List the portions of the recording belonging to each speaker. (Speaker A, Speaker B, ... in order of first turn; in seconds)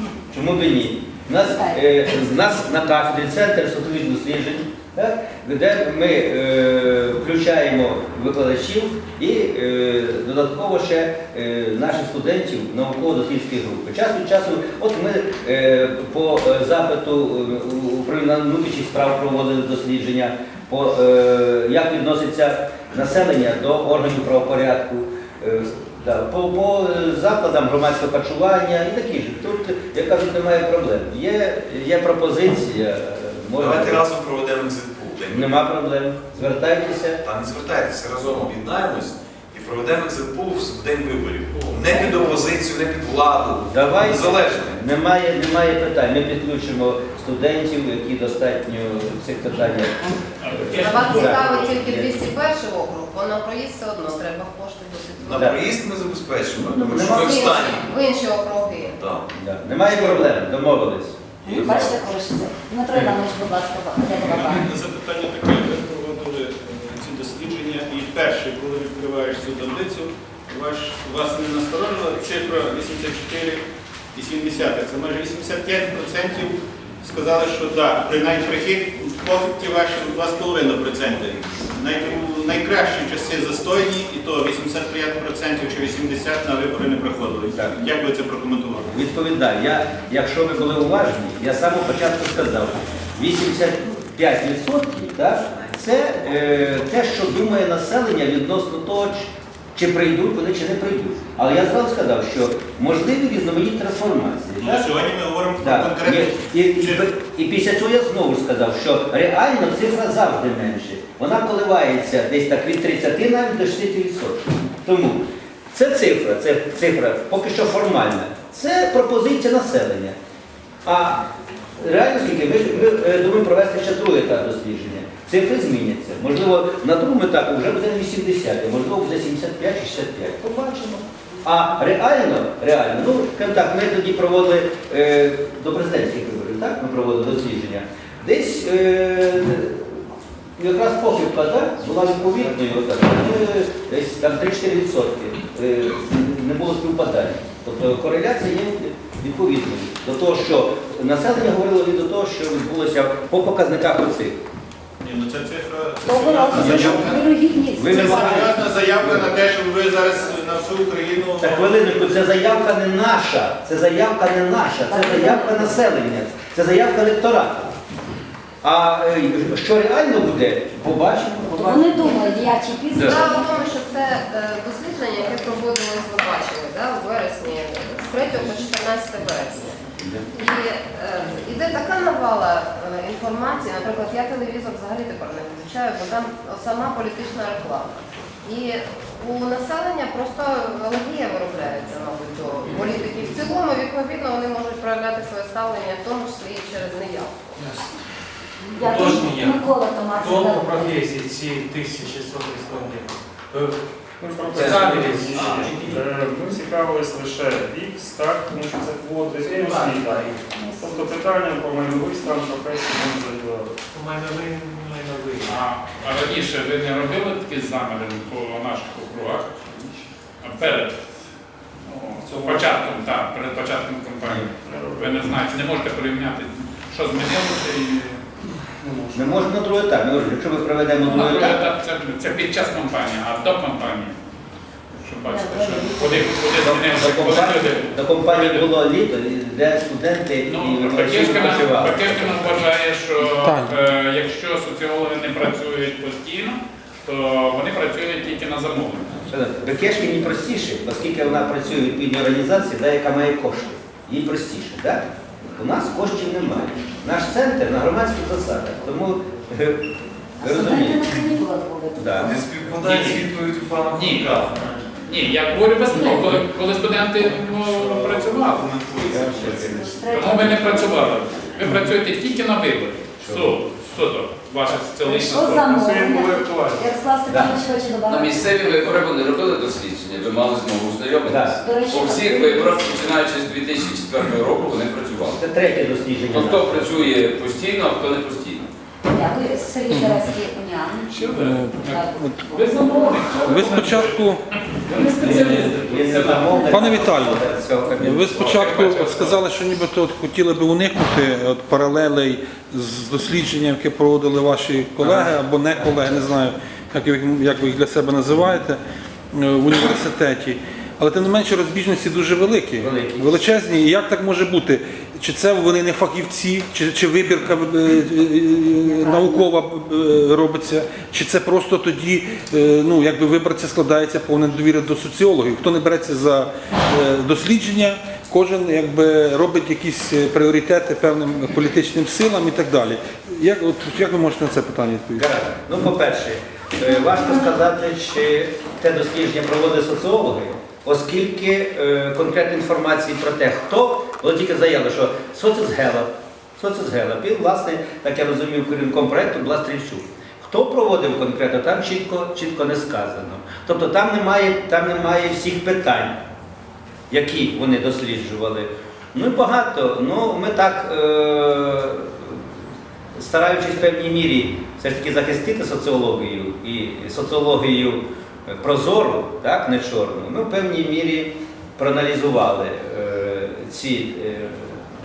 Speaker A: 0.3-34.0, 35.3-37.2, 43.7-52.2, 56.7-57.5, 59.3-61.5, 88.9-104.9, 105.6-120.2, 120.8-121.2, 121.8-154.4, 156.6-157.2, 157.7-159.3, 161.4-167.7, 168.6-172.2, 172.9-173.2, 180.0-180.2, 229.1-231.6, 236.6-242.6, 249.3-261.2, 261.9-262.4, 269.1-269.7, 273.2-273.6, 277.3-277.5, 281.2-281.6, 285.4-286.9, 295.2-298.8, 305.0-306.0, 312.8-313.4, 335.2-356.2, 357.1-362.6, 363.1-374.9
Speaker B: 33.6-35.5, 37.2-44.8, 55.3-57.9, 58.9-59.2, 61.5-62.0, 205.3-205.9, 262.1-264.8, 267.6-270.1
Speaker C: 50.4-51.3, 215.4-219.5, 220.4-220.9, 221.8-228.2, 231.0-234.2, 235.0-238.6, 240.4-249.2, 262.8-263.3, 263.9-264.5, 265.1-268.6, 270.1-275.7, 291.1-294.3, 294.9-297.0, 298.4-299.4
Speaker D: 50.7-55.6, 57.0-59.0, 172.9-197.7
Speaker E: 61.5-64.7, 156.0-158.5, 164.9-165.8, 171.5-173.4, 198.7-201.0, 210.5-210.9, 235.2-236.4, 260.4-262.2, 265.9-266.2, 269.3-271.7, 275.0-279.1, 281.5-283.0, 289.1-291.3, 291.9-293.3, 294.9-295.8, 318.8-319.5, 336.9-337.5
Speaker F: 64.2-73.6, 74.1-88.9, 104.6-107.0, 155.0-157.2, 157.8-162.1
Speaker G: 197.6-197.9, 198.8-199.6, 200.2-203.8, 204.5-205.8, 209.4-210.4, 213.9-215.6, 222.2-223.0
Speaker H: 204.2-213.7, 224.7-225.3, 228.8-229.3, 275.6-276.9
Speaker I: 243.4-243.8, 289.9-290.2, 291.4-292.5, 293.4-294.4, 296.7-297.4, 298.0-308.8, 309.3-335.2
Speaker J: 278.1-285.4, 286.3-288.6